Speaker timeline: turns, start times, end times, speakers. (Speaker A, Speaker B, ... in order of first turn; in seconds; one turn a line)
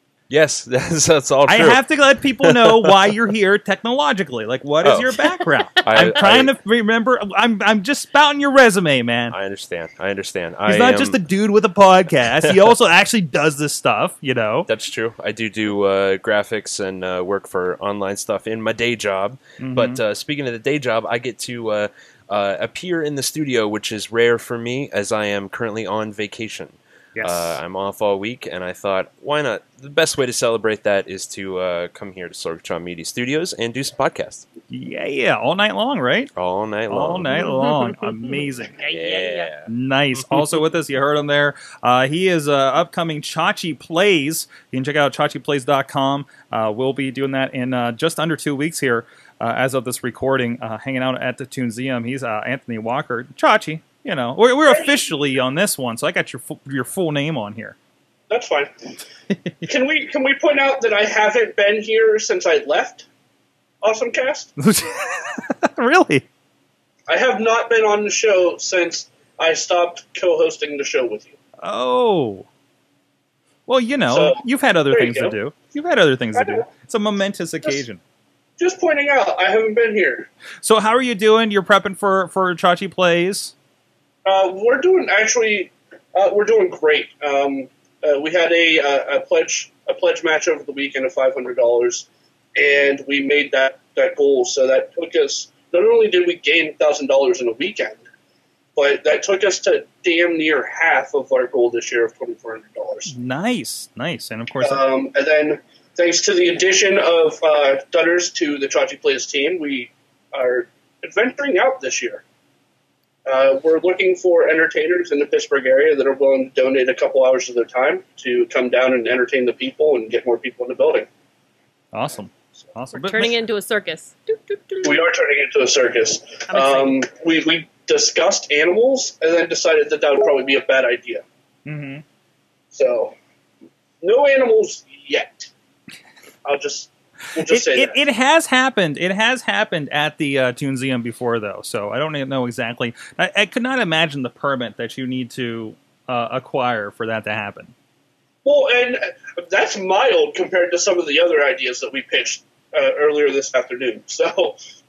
Speaker A: 0.3-1.8
Speaker B: 1.5-9.4
Speaker A: 2.4-2.9
Speaker A: 4.8-5.2
Speaker A: 5.8-6.5
Speaker A: 9.3-11.2
Speaker B: 10.7-14.7
Speaker A: 14.7-34.5
Speaker B: 19.6-20.0
Speaker B: 27.2-27.6
Speaker B: 34.7-36.3
Speaker A: 36.4-37.4
Speaker B: 36.9-38.8
Speaker C: 37.3-39.5
Speaker A: 38.9-39.7
Speaker B: 39.7-57.8
Speaker D: 54.7-55.0
Speaker D: 58.3-58.7
Speaker D: 59.6-63.1
Speaker D: 63.8-64.5
Speaker B: 64.6-66.3
Speaker D: 67.1-71.4
Speaker B: 71.6-72.5
Speaker B: 73.7-78.0
Speaker D: 74.1-74.4
Speaker D: 74.9-75.4
Speaker D: 76.3-76.6
Speaker D: 78.6-80.3
Speaker B: 80.6-83.5
Speaker D: 84.2-98.0
Speaker D: 98.8-103.1
Speaker B: 103.1-104.8
Speaker D: 104.6-112.2
Speaker D: 113.3-121.1
Speaker B: 121.9-123.4
Speaker C: 123.0-125.1
Speaker D: 124.8-131.2
Speaker C: 126.5-127.0
Speaker B: 131.7-132.0
Speaker D: 132.7-133.2
Speaker D: 134.0-135.5
Speaker D: 136.4-138.0
Speaker B: 137.4-147.7
Speaker D: 148.4-154.6